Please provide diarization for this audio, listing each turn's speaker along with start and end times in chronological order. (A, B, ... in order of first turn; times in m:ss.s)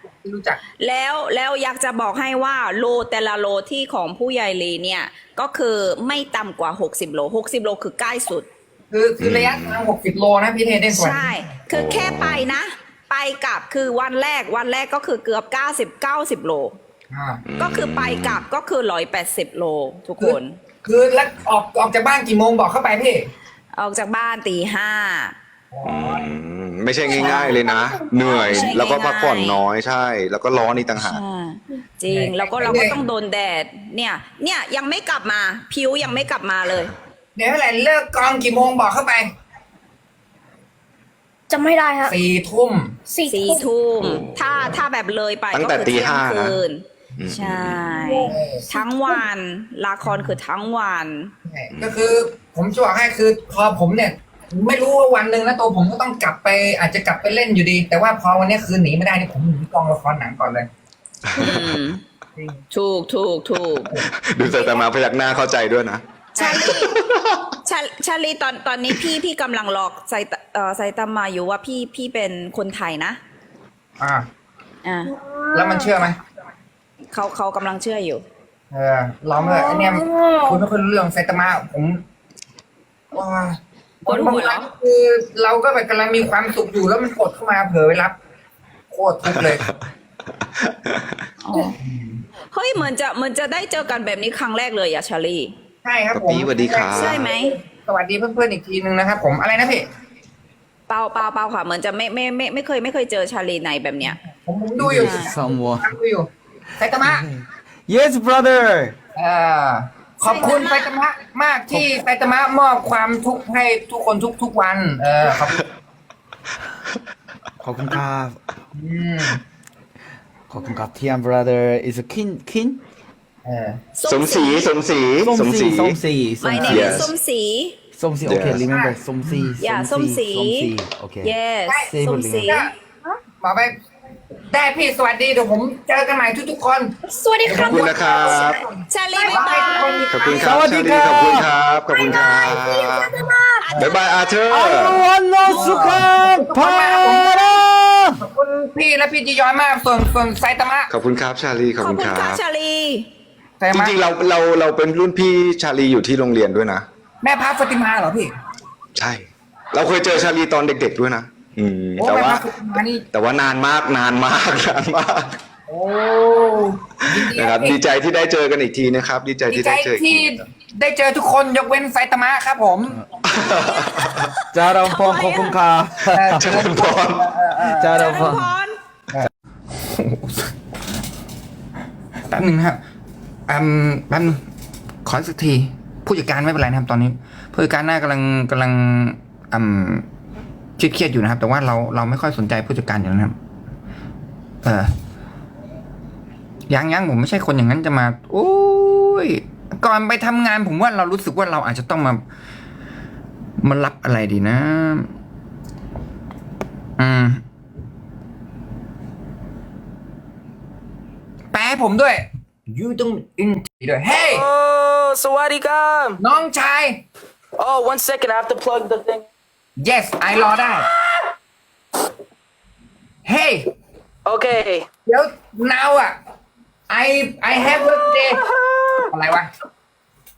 0:00.2-0:00.6 A
0:00.8-0:08.5 B
0:08.9-0:11.3 A
0:09.2-0:09.8 C
0:10.9-0:16.8 B
0:11.7-0:12.5 C
0:17.1-0:17.4 A
0:17.4-0:18.4 C
0:17.6-0:20.6 B
0:20.2-0:23.3 A
0:23.7-0:25.4 B
0:25.7-0:26.2 A
0:25.8-0:31.2 C
0:27.1-0:29.6 B
0:31.0-0:36.9 B
0:32.1-0:33.0 A
0:37.4-0:39.3 A
0:41.5-0:42.1 D
0:42.0-0:43.0 A
0:43.0-0:43.7 D
0:43.3-0:51.3 B
0:43.9-0:44.8 C
0:45.5-0:46.6 C
0:47.2-0:47.9 C
0:48.0-0:49.2 D
0:48.3-0:48.7 A
0:50.0-0:50.4 A
0:51.4-1:00.7 A
0:51.7-0:52.0 C
1:01.4-1:02.0 B
1:02.4-1:02.6 A
1:02.7-1:03.9 B
1:04.2-1:06.0 C
1:04.4-1:04.8 B
1:06.4-1:07.0 B
1:06.4-1:06.8 A
1:06.6-1:07.5 C
1:07.6-1:13.2 B
1:14.0-1:14.2 A
1:14.8-1:15.1 B
1:15.2-1:16.0 D
1:15.5-1:16.2 A
1:17.1-1:18.2 B
1:18.7-1:22.0 A
1:19.3-1:20.6 D
1:23.1-1:28.1 A
1:24.1-1:24.7 B
1:28.9-1:29.6 A
1:29.3-1:29.7 C
1:30.6-1:31.1 C
1:31.4-1:31.8 B
1:31.8-1:32.2 A
1:32.5-1:35.5 B
1:35.8-1:39.8 A
1:36.1-1:37.3 C
1:36.9-1:37.5 B
1:40.9-1:44.2 B
1:44.0-1:47.3 A
1:44.8-1:45.9 E
1:44.9-1:45.3 B
1:47.0-1:49.0 E
1:49.1-1:55.6 A
1:50.2-1:50.9 B
1:57.6-1:58.4 E
1:58.7-1:59.4 A
2:00.5-2:02.8 E
2:03.4-2:03.8 A
2:04.0-2:04.7 B
2:04.0-2:06.0 C
2:05.2-2:07.1 E
2:06.4-2:07.8 B
2:06.5-2:06.9 A
2:06.6-2:07.1 C
2:07.9-2:12.5 E
2:08.2-2:08.6 C
2:08.5-2:09.5 A
2:09.6-2:12.6 B
2:12.4-2:12.7 A
2:13.4-2:13.7 A
2:14.5-2:16.9 A
2:17.0-2:18.5 D
2:17.4-2:20.6 A
2:17.6-2:18.6 C
2:18.3-2:20.4 B
2:19.1-2:20.0 D
2:20.1-2:23.1 C
2:20.4-2:21.5 E
2:22.0-2:22.5 A
2:22.1-2:23.6 D
2:23.2-2:24.0 A
2:23.7-2:24.0 B
2:23.7-2:25.0 C
2:24.5-2:28.2 E
2:25.4-2:27.6 A
2:25.5-2:25.8 B
2:28.2-2:30.9 A
2:30.9-2:32.4 C
2:31.8-2:33.1 B
2:33.6-2:34.0 A
2:33.7-2:36.8 C
2:37.2-2:38.3 A
2:39.0-2:42.5 C
2:42.0-2:43.0 A
2:43.1-2:45.4 C
2:45.7-2:47.8 A
2:47.1-2:50.4 C
2:49.5-2:53.0 A
2:53.3-2:54.3 C
2:53.7-2:55.6 B
2:54.5-2:56.6 E
2:56.1-2:58.3 A
2:56.4-2:57.3 C
2:57.6-2:58.5 E
2:57.8-2:58.8 B
2:59.1-3:00.5 A
3:02.3-3:02.8 A
3:03.5-3:04.4 A
3:05.0-3:10.1 A
3:10.8-3:13.4 A
3:14.6-3:14.9 A
3:16.7-3:22.2 A
3:23.6-3:25.1 A
3:27.0-3:27.4 A
3:31.5-3:34.4 A
3:34.2-3:36.2 F
3:36.2-3:37.0 A
3:37.6-3:39.3 F
3:39.8-3:40.9 A
3:43.2-3:43.7 A
3:44.2-3:44.9 F
3:45.0-3:46.2 A
3:46.9-3:48.4 A
3:47.6-3:49.1 F
3:49.1-3:49.5 A